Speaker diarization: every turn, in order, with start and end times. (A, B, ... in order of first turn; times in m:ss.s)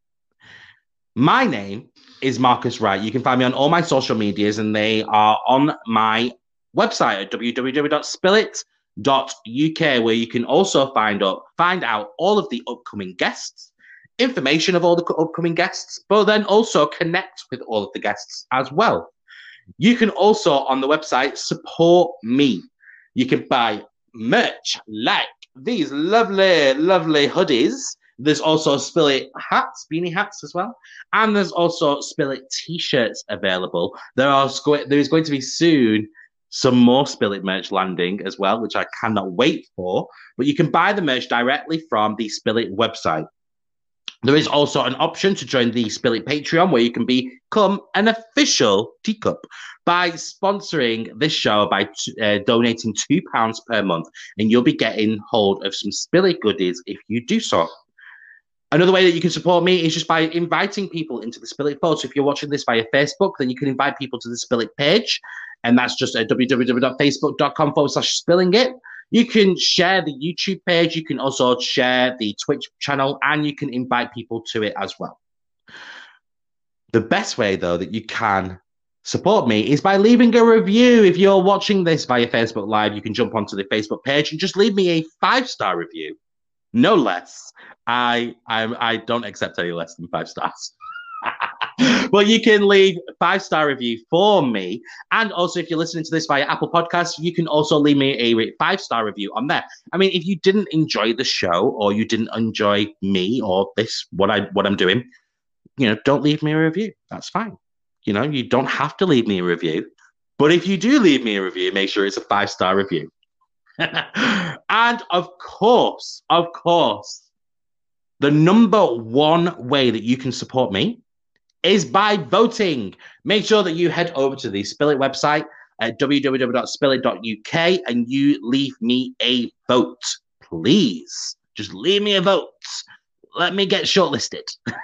0:01.2-0:19.1 A
0:19.8-0:43.3 A
0:44.2-0:57.7 A
0:58.7-1:15.2 A
1:16.9-1:26.2 A
1:26.7-1:45.0 A
1:45.8-1:53.1 A
1:53.8-1:57.3 A
1:58.2-2:01.0 A
2:01.6-2:14.6 A